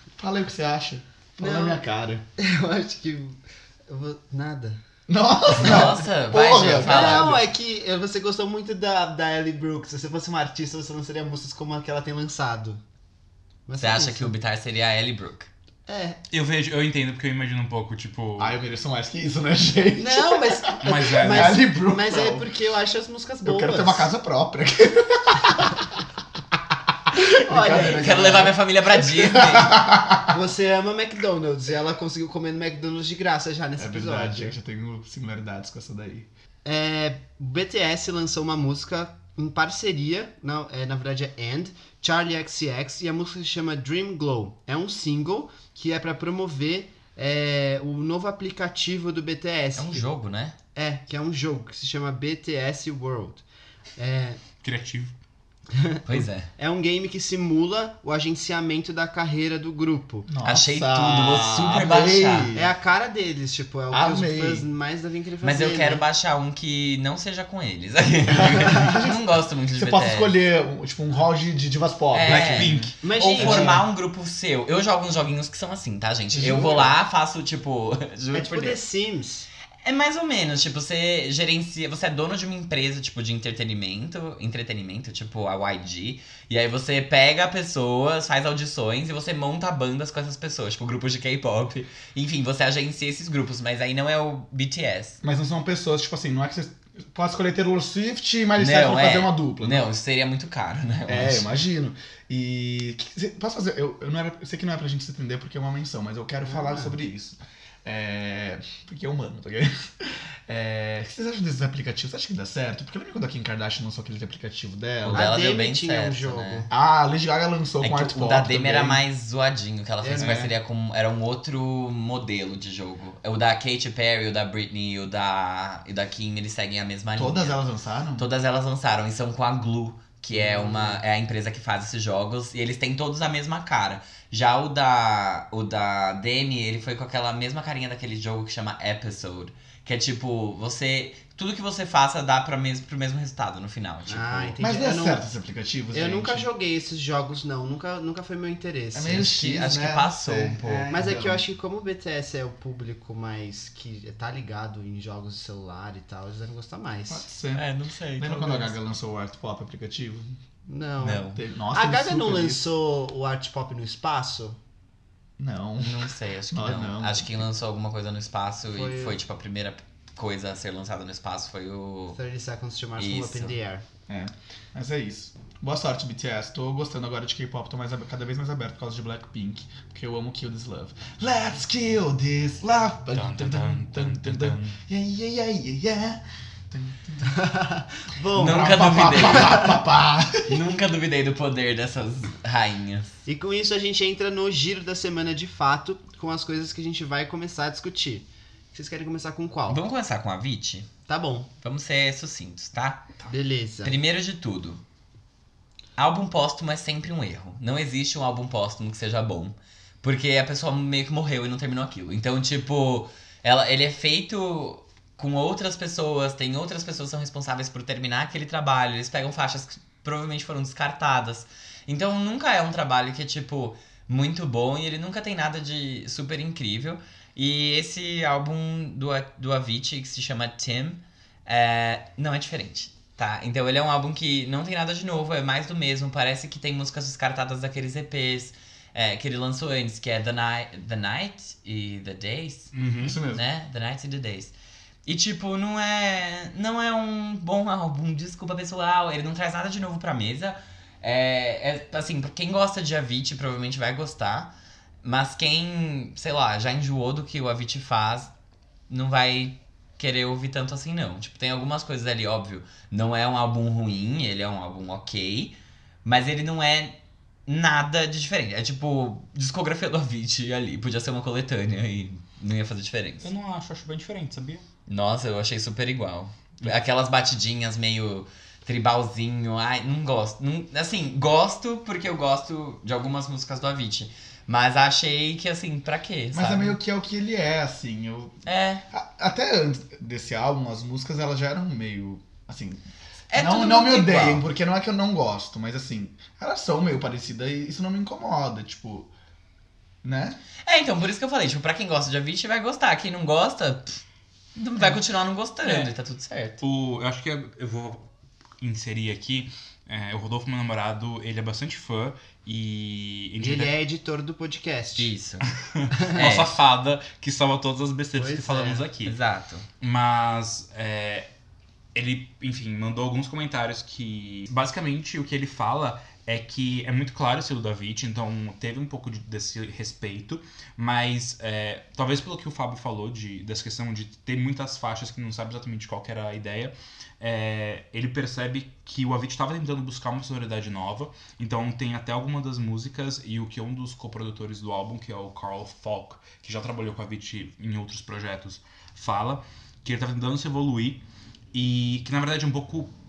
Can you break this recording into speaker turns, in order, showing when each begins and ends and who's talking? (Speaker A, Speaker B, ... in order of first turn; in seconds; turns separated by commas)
Speaker A: 0.2-2.2, Speaker B: 1.4-1.8, Speaker B: 2.4-4.8, Speaker A: 5.1-7.4, Speaker C: 5.6-7.4, Speaker B: 6.8-12.8, Speaker B: 13.7-14.3, Speaker C: 13.8-15.5, Speaker B: 15.9-16.2, Speaker D: 16.3-18.6, Speaker A: 18.4-22.5, Speaker B: 20.0-24.1, Speaker D: 20.8-21.6, Speaker A: 23.4-25.9, Speaker A: 27.1-30.4, Speaker B: 27.2-28.6, Speaker C: 27.7-29.8, Speaker B: 30.3-34.5, Speaker A: 33.8-36.3, Speaker B: 36.6-50.1, Speaker C: 49.8-50.6, Speaker B: 50.8-53.4, Speaker B: 54.0-54.4, Speaker D: 54.6-55.1, Speaker B: 55.7-60.3, Speaker C: 56.1-56.5, Speaker A: 60.3-62.7, Speaker C: 60.4-62.5, Speaker B: 62.5-66.0, Speaker A: 63.9-64.7, Speaker C: 65.4-70.3, Speaker A: 68.5-72.9, Speaker C: 72.1-78.8, Speaker D: 72.3-73.8, Speaker B: 73.0-73.8, Speaker A: 76.3-77.0, Speaker B: 78.3-79.5, Speaker C: 79.8-95.2, Speaker A: 95.2-99.9, Speaker C: 98.6-101.5, Speaker A: 101.1-115.3, Speaker B: 106.4-107.0, Speaker C: 115.0-116.7, Speaker B: 115.1-116.7, Speaker A: 116.7-119.0, Speaker C: 117.8-127.6, Speaker B: 120.0-120.4, Speaker A: 120.2-120.5, Speaker A: 127.2-128.3, Speaker C: 128.2-144.6, Speaker B: 130.3-131.0, Speaker B: 144.1-145.2, Speaker A: 144.6-146.5, Speaker B: 145.9-149.3, Speaker A: 148.9-151.4, Speaker C: 149.1-151.0, Speaker B: 150.9-157.3, Speaker A: 157.1-160.4, Speaker C: 157.5-158.7, Speaker B: 160.7-164.6, Speaker C: 161.0-161.4, Speaker A: 161.1-162.7, Speaker A: 165.4-167.5, Speaker C: 165.8-172.2, Speaker B: 168.7-169.2, Speaker B: 172.1-173.8, Speaker C: 173.0-173.6, Speaker A: 174.1-187.4, Speaker D: 183.1-184.8, Speaker B: 187.3-189.8, Speaker C: 188.3-189.7, Speaker A: 188.4-190.6, Speaker C: 190.5-193.1, Speaker B: 193.3-199.8, Speaker C: 199.7-200.9, Speaker B: 201.1-201.5, Speaker C: 201.6-203.1, Speaker B: 203.3-204.0, Speaker C: 203.8-204.8, Speaker C: 206.0-242.7, Speaker D: 242.7-243.2, Speaker A: 243.0-243.4, Speaker C: 243.3-244.5, Speaker C: 245.1-254.5, Speaker C: 255.0-258.3, Speaker C: 258.9-273.3, Speaker D: 273.2-274.6, Speaker C: 274.9-286.8, Speaker A: 286.3-299.1, Speaker C: 288.4-288.8, Speaker C: 293.3-294.4, Speaker A: 300.0-300.4, Speaker C: 300.6-304.0, Speaker C: 304.6-306.6, Speaker D: 305.6-305.9, Speaker D: 306.6-308.1, Speaker D: 308.6-313.8, Speaker B: 313.4-315.1, Speaker C: 315.0-315.5, Speaker D: 315.5-319.2, Speaker B: 315.9-316.2, Speaker C: 316.1-316.5, Speaker B: 318.1-318.9, Speaker C: 319.1-319.7, Speaker D: 319.8-321.3, Speaker D: 321.9-352.9